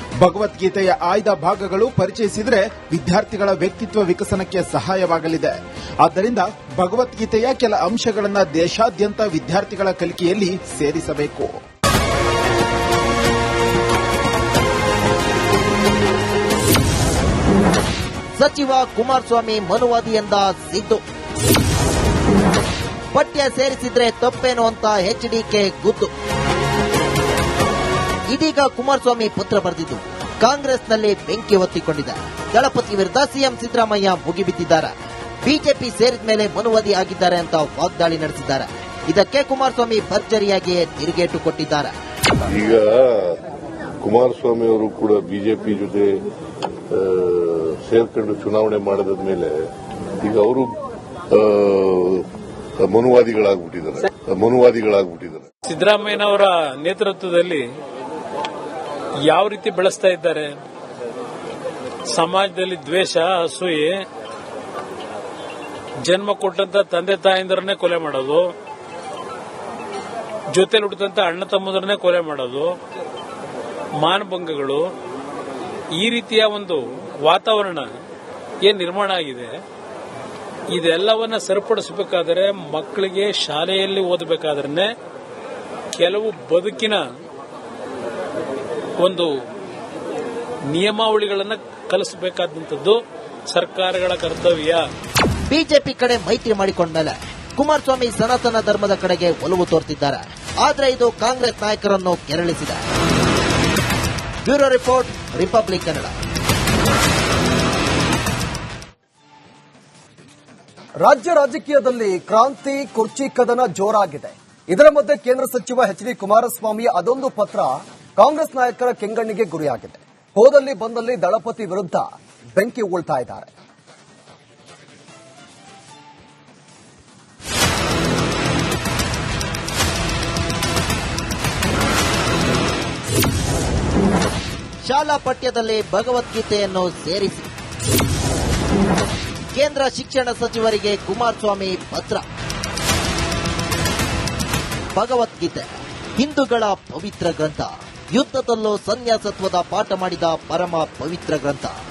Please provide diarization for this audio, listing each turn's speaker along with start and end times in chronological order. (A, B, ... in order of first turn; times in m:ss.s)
0:00.2-0:11.6 A
0:18.4-0:21.0 B
0:23.1-0:26.1 B
0:28.3-0:42.0 B
0:42.5-0:43.4 C
0:44.0-0:46.2 C
0:46.9-0:49.5 C
0:50.2-0:50.8 C
0:51.3-0:52.3 C
0:52.8-0:55.5 C
0:55.7-0:57.7 D
0:59.3-1:00.6 D
1:02.1-1:04.0 D
1:06.0-1:08.5 D
1:10.5-1:12.7 D
1:14.0-1:14.9 D
1:16.0-1:17.9 D
1:18.6-1:19.5 D
1:20.7-1:24.9 D
1:26.0-1:27.0 D
1:29.0-1:29.3 D
1:30.7-1:33.0 D
1:33.5-1:34.9 D
1:35.5-1:42.8 B
1:44.4-1:46.2 B
1:51.0-2:03.5 E
2:14.8-2:17.5 B
2:19.5-2:22.2 B
2:25.0-2:25.7 B
2:26.2-2:31.8 B